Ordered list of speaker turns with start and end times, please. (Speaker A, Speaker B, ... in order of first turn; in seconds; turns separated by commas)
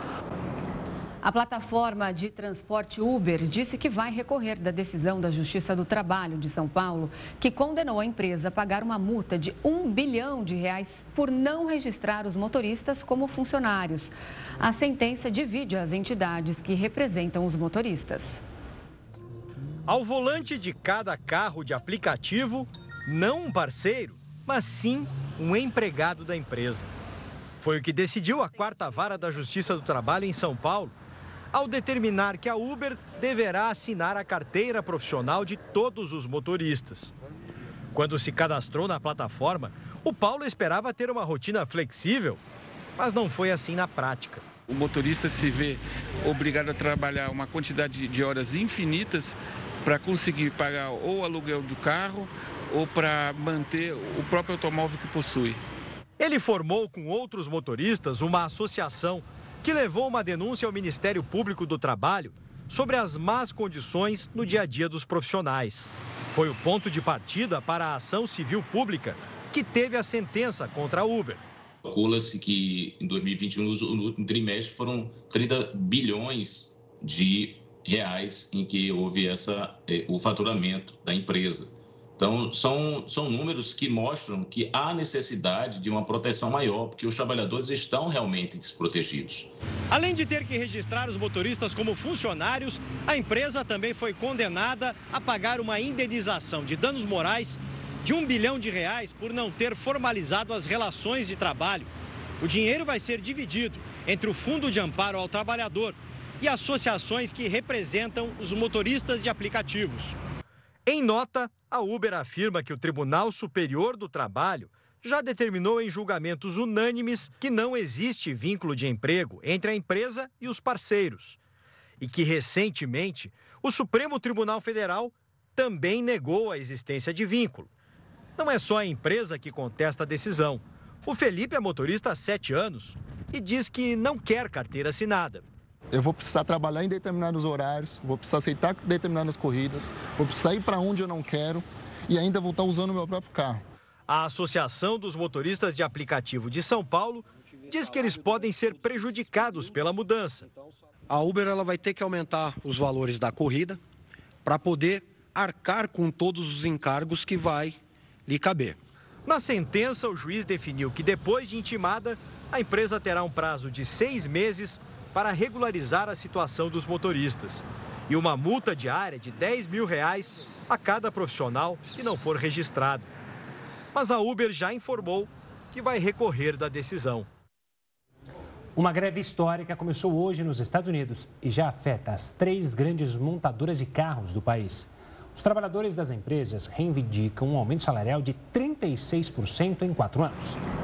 Speaker A: 1.2-18.4, Speaker B: 19.9-26.9, Speaker B: 27.6-30.9, Speaker B: 31.5-37.1, Speaker B: 37.9-42.4, Speaker B: 43.0-44.5, Speaker C: 44.7-55.6, Speaker B: 56.2-71.4, Speaker D: 71.8-89.5, Speaker B: 89.9-110.2, Speaker B: 110.9-121.4, Speaker B: 122.0-127.7, Speaker B: 128.4-135.4, Speaker E: 135.9-143.6, Speaker B: 144.1-150.5, Speaker F: 151.1-153.8, Speaker F: 154.4-158.8, Speaker B: 159.3-173.1, Speaker B: 173.9-177.3, Speaker G: 178.8-190.6